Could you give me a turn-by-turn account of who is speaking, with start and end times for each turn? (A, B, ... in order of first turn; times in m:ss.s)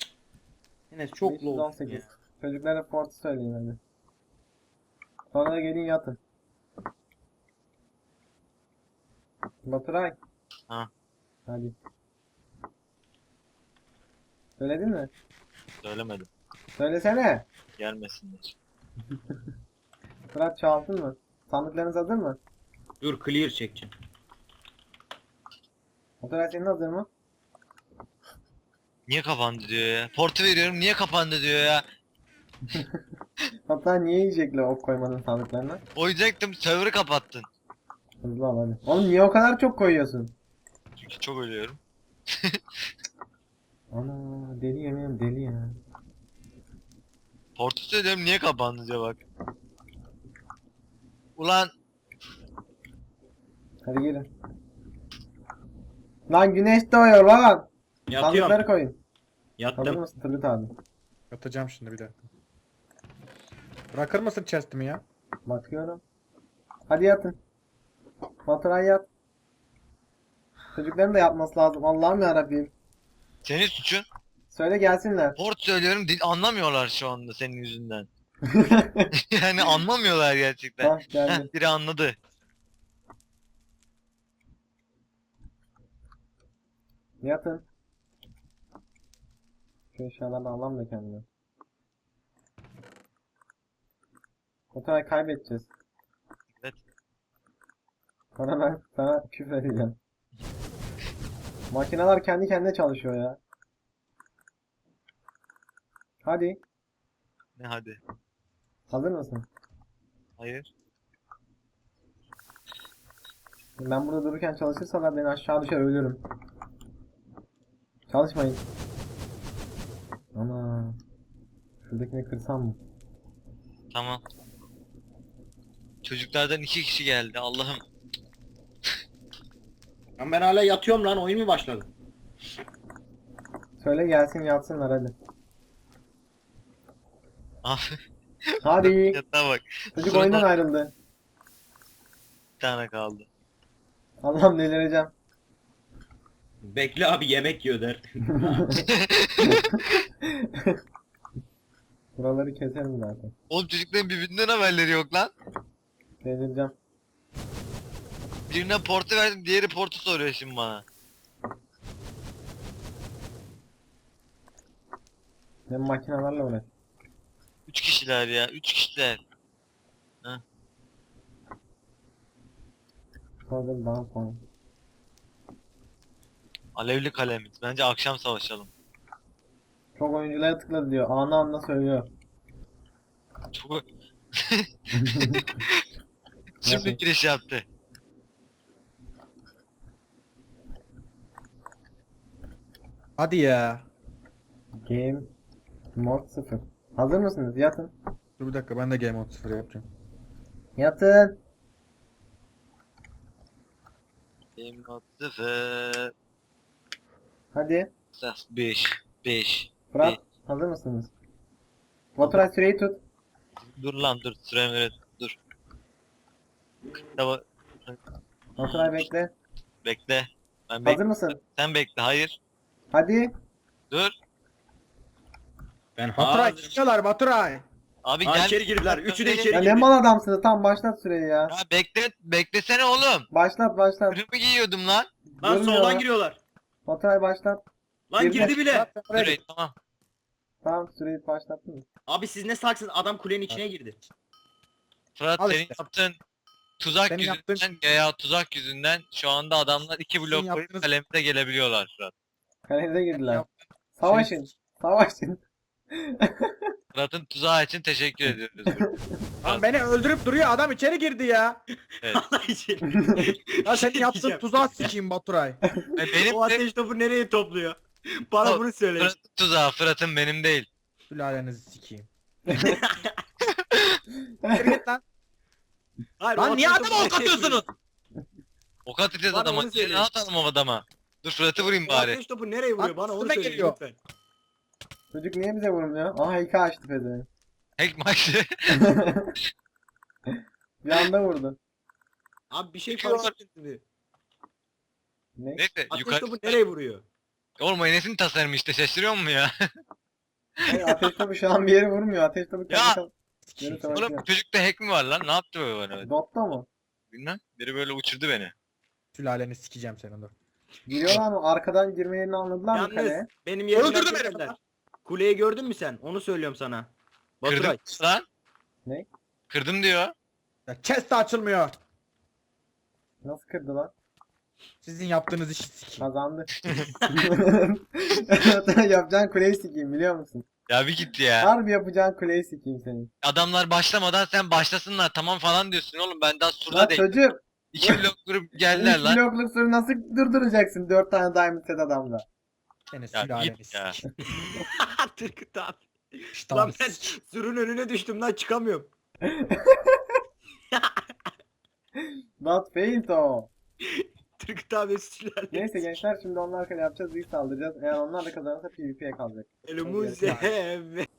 0:00.9-0:02.1 A
0:01.2-0:03.8 B
0:05.3-0:06.2 B
0:09.6-0:10.2 B
0:11.5-0:11.8 B
0:14.6-0:15.1 B
0:15.8-0:16.3 C
0:16.8-0:17.5 B
0:17.8-0:18.6 C
0:20.3-0:22.4 B
0:23.0-0:23.9 A
0:26.2-0:27.1 B
0:29.1-0:31.8 C
0:33.7-0:35.8 B
0:36.0-0:37.5 C
0:38.2-0:40.3 B
0:41.0-0:41.8 C
0:42.3-0:42.6 C
0:43.9-0:45.8 B
0:47.6-0:49.2 C
0:51.4-0:51.7 C
0:53.8-0:54.3 B
0:56.3-0:59.0 B
0:58.1-0:58.6 A
0:59.6-1:00.0 A
0:59.8-1:00.7 B
1:01.3-1:02.2 D
1:03.9-1:05.0 D
1:05.5-1:06.0 B
1:06.9-1:07.4 B
1:08.5-1:09.1 B
1:10.8-1:12.7 B
1:13.4-1:14.0 C
1:14.5-1:15.4 B
1:15.4-1:18.1 C
1:18.5-1:19.1 B
1:19.3-1:22.2 C
1:20.8-1:21.5 B
1:27.2-1:27.7 B
1:29.9-1:31.3 B
1:34.7-1:35.7 B
1:38.4-1:40.0 B
1:41.7-1:43.4 B
1:46.2-1:46.6 B
1:47.6-1:48.0 C
1:48.9-1:49.5 B
1:50.4-1:50.7 C
1:53.8-1:56.2 B
1:58.1-1:58.6 B
2:00.4-2:01.0 B
2:01.8-2:02.8 B
2:03.9-2:04.2 C
2:06.0-2:07.8 C
2:10.2-2:11.9 A
2:13.8-2:15.2 B
2:17.6-2:18.0 C
2:18.6-2:19.2 B
2:18.7-2:20.5 C
2:19.9-2:20.9 B
2:22.6-2:23.3 C
2:24.2-2:25.1 B
2:26.6-2:28.7 A
2:28.3-2:28.8 B
2:28.9-2:29.9 C
2:29.5-2:30.8 B
2:32.2-2:33.3 B
2:33.5-2:35.3 C
2:36.2-2:36.7 B
2:38.5-2:40.8 C
2:45.7-2:46.7 B
2:47.7-2:49.2 C
2:53.5-2:54.4 B
2:56.8-2:58.7 C
3:00.0-3:02.1 B
3:03.5-3:03.8 C
3:04.4-3:05.8 C
3:05.0-3:05.5 B
3:06.6-3:07.0 B
3:06.6-3:07.7 C
3:13.2-3:13.9 D
3:14.8-3:15.3 B
3:16.0-3:17.9 B
3:18.4-3:19.8 D
3:20.8-3:21.4 B
3:24.6-3:26.1 C
3:27.5-3:27.9 B
3:28.1-3:30.2 C
3:29.9-3:31.1 B
3:32.2-3:33.0 B
3:33.7-3:35.4 C
3:37.2-3:38.0 C
3:38.6-3:39.3 B
3:38.6-3:39.0 C
3:39.8-3:42.4 C
3:40.8-3:41.4 B
3:42.9-3:43.3 B
3:46.0-3:46.8 A
3:46.2-3:47.6 D
3:48.0-3:49.7 C
3:48.2-3:49.9 A
3:49.5-3:51.6 B
3:51.5-3:53.3 C
3:53.3-3:54.2 B
3:54.1-3:55.1 C
3:55.4-3:56.0 B
3:55.4-3:56.4 A
3:56.9-3:57.6 B
3:58.1-3:58.9 A
3:58.2-3:58.5 B
3:58.4-3:59.4 D
3:59.1-3:59.8 C
4:00.6-4:01.8 B
4:02.1-4:04.0 A
4:05.2-4:06.2 C
4:05.4-4:05.8 D
4:06.8-4:12.1 C
4:07.1-4:07.6 D
4:10.2-4:10.9 D
4:12.7-4:13.4 B
4:13.2-4:13.5 D
4:14.0-4:16.7 B
4:14.0-4:14.4 D
4:16.9-4:18.8 C
4:18.7-4:19.2 B
4:19.4-4:21.6 D
4:22.0-4:24.9 A
4:22.9-4:23.3 B
4:23.6-4:25.6 D
4:26.0-4:26.6 C
4:26.2-4:29.1 A
4:28.4-4:30.7 C
4:31.1-4:32.1 D
4:32.5-4:32.8 B
4:32.6-4:33.2 A
4:33.4-4:34.0 C
4:34.4-4:34.7 B
4:34.5-4:35.0 D
4:36.2-4:37.6 A
4:36.4-4:37.7 D
4:38.9-4:42.2 C
4:39.3-4:40.1 A
4:41.6-4:44.0 A
4:42.8-4:43.8 D
4:45.1-4:47.3 B
4:47.8-4:48.9 C
4:48.8-4:49.3 B
4:50.8-4:51.6 B
4:52.5-4:53.8 A
4:52.9-4:53.3 C
4:55.4-4:55.7 B
4:55.6-4:56.6 C
4:55.9-4:57.0 A
4:57.6-4:59.7 C
5:00.7-5:04.2 B
5:00.7-5:01.1 C
5:02.7-5:03.0 C
5:03.5-5:04.0 D
5:03.9-5:06.1 C
5:06.0-5:06.7 B
5:07.1-5:08.5 C
5:09.1-5:10.3 D
5:10.9-5:13.3 B
5:12.7-5:16.9 A
5:13.7-5:14.6 D
5:17.4-5:17.9 A
5:17.5-5:18.2 C
5:19.5-5:20.1 C
5:20.7-5:21.8 D
5:23.2-5:23.9 B
5:24.8-5:26.1 D
5:26.0-5:26.5 B
5:26.7-5:26.9 C
5:27.1-5:30.5 B
5:30.7-5:31.5 C
5:31.4-5:33.1 B
5:33.2-5:37.1 C
5:36.7-5:38.1 B
5:37.7-5:39.2 C
5:38.7-5:42.2 B
5:42.9-5:44.0 D
5:43.1-5:44.0 C
5:44.3-5:48.9 A
5:46.3-5:47.2 D
5:49.2-5:50.0 B
5:50.7-5:51.0 A
5:52.4-5:53.5 B
5:53.8-5:56.0 A
5:55.5-6:00.5 B
5:59.7-6:01.1 A